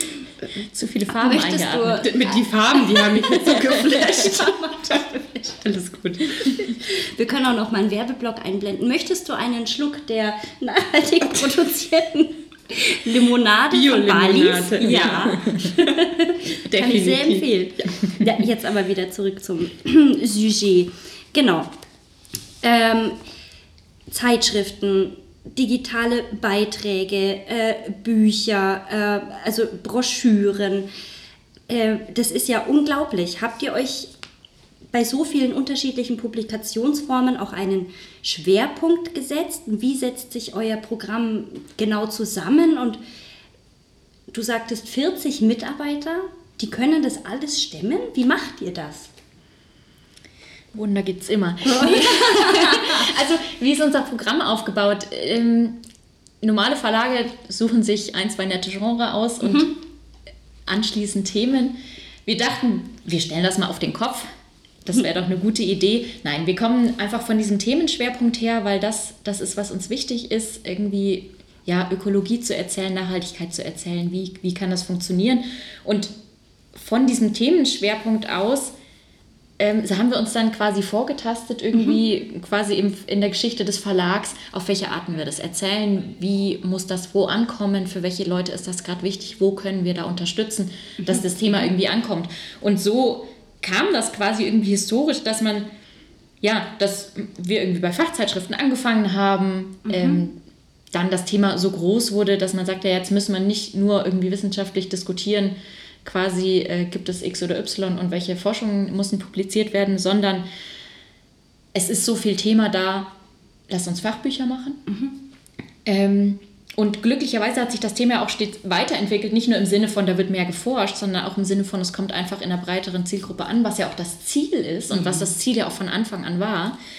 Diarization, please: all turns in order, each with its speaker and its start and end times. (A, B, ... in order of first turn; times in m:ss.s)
0:00.7-0:02.4 A
0:01.2-0:02.3 B
0:02.0-0:04.5 C
0:02.8-0:05.6 B
0:05.6-0:06.5 C
0:06.8-0:21.7 B
0:13.7-0:16.0 C
0:16.7-0:17.4 C
0:22.6-0:23.2 B
0:24.1-0:30.9 B
0:31.7-0:34.1 B
0:34.9-0:43.0 B
0:44.3-0:49.1 B
0:50.7-0:55.8 A
0:51.7-0:53.0 B
0:56.4-0:59.8 A
1:00.6-1:04.3 A
1:04.8-1:16.1 A
1:16.7-1:18.7 A
1:19.6-1:35.7 A
1:36.4-1:40.4 A
1:39.9-1:40.2 B
1:40.9-1:50.4 A
1:51.7-1:53.1 A
1:53.7-1:54.8 A
1:55.8-2:06.8 A